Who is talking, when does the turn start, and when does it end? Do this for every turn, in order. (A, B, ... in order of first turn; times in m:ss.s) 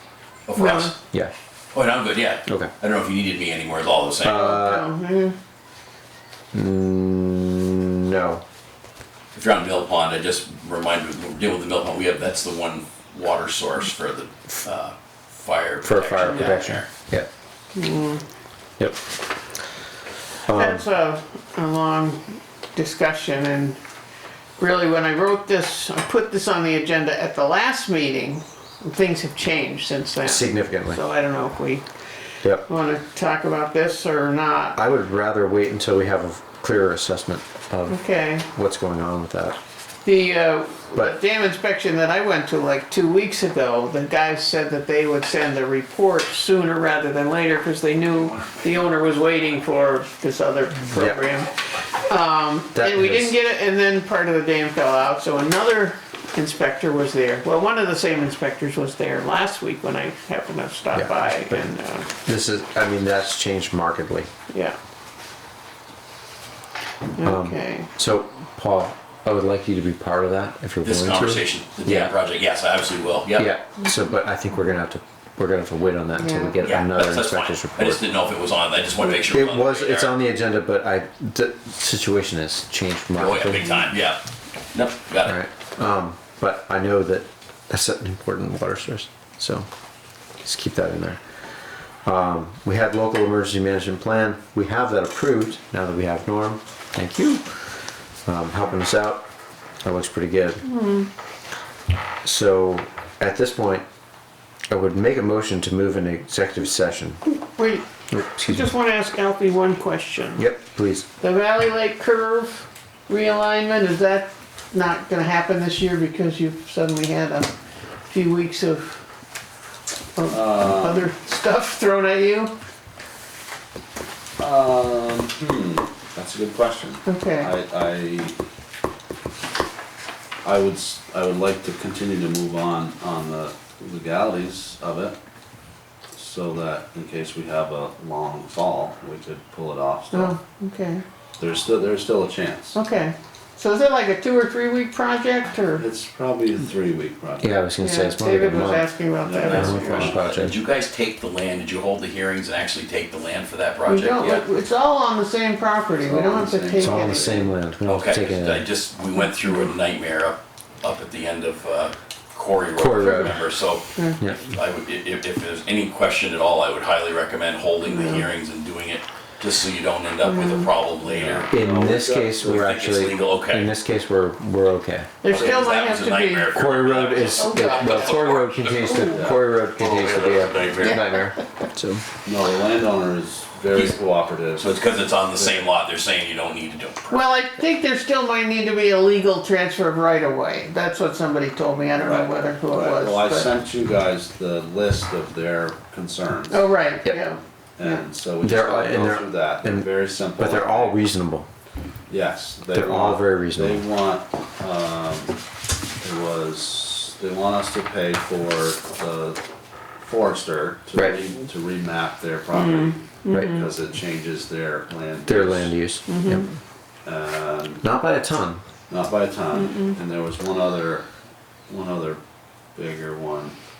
0:00.5-0:01.0 A
0:00.5-0:00.9 B
0:01.7-0:04.6 A
0:02.4-0:02.7 C
0:04.2-0:04.9 C
0:04.2-0:05.3 B
0:06.5-0:08.4 C
0:09.3-0:16.9 A
0:15.8-0:17.3 C
0:17.7-0:18.2 B
0:20.4-0:20.8 C
0:20.5-0:23.8 B
0:24.6-0:31.8 B
0:30.2-0:31.0 C
0:32.6-0:34.8 B
0:34.8-0:39.6 C
0:37.9-0:38.4 B
0:40.0-1:02.1 B
0:52.7-0:53.3 C
1:00.9-1:01.7 C
1:02.2-1:04.3 C
1:04.5-1:04.8 B
1:07.2-1:07.9 B
1:07.2-1:12.1 C
1:10.8-1:13.5 A
1:13.4-1:18.0 C
1:16.2-1:16.6 B
1:16.6-1:20.1 A
1:19.0-1:23.9 C
1:23.2-1:24.2 A
1:24.7-1:25.4 A
1:25.2-1:29.7 C
1:30.4-1:31.2 C
1:32.0-1:37.6 C
1:38.2-1:39.3 C
1:39.8-1:40.6 C
1:40.6-1:41.1 B
1:42.2-1:43.8 C
1:44.7-1:47.2 C
1:47.6-1:50.5 B
1:48.1-1:48.7 C
1:50.4-1:51.1 C
1:51.2-1:57.5 B
1:58.1-1:59.0 B
2:00.2-2:02.5 B
2:00.3-2:01.1 D
2:04.4-2:08.4 D
2:07.0-2:07.5 B
2:10.4-2:15.2 D
2:16.1-2:20.3 D
2:20.1-2:21.0 B
2:21.4-2:22.8 D
2:22.7-2:25.8 B
2:25.8-2:27.5 D
2:27.4-2:28.9 C
2:27.8-2:30.2 B
2:29.2-2:30.2 D
2:29.5-2:30.6 C
2:29.5-2:34.4 A
2:33.8-2:37.5 B
2:36.0-2:37.5 D
2:36.8-2:38.6 C
2:37.8-2:51.5 A
2:42.8-2:43.4 C
2:47.8-2:48.3 B
2:50.2-2:50.7 B
2:51.0-2:52.7 D
2:51.5-2:55.2 C
2:52.4-2:53.7 A
2:55.2-2:56.5 B
2:55.3-3:01.0 A
2:56.5-3:02.0 C
2:57.4-2:58.2 B
2:59.1-2:59.4 D
3:02.2-3:05.7 D
3:03.7-3:04.0 A
3:04.5-3:07.2 A
3:07.1-3:13.5 B
3:12.0-3:16.6 D
3:16.5-3:18.0 B
3:17.8-3:21.0 D
3:18.4-3:21.5 C
3:22.1-3:25.4 D
3:22.7-3:23.8 C
3:26.0-3:29.4 D
3:30.0-3:35.8 D
3:32.5-3:33.6 B
3:33.3-3:33.6 C
3:35.2-3:36.5 C
3:36.1-3:36.5 B
3:37.0-3:37.8 D
3:37.8-3:38.6 C
3:38.9-3:41.1 D
3:39.5-3:39.9 B
3:41.7-3:42.2 D
3:42.8-3:43.6 D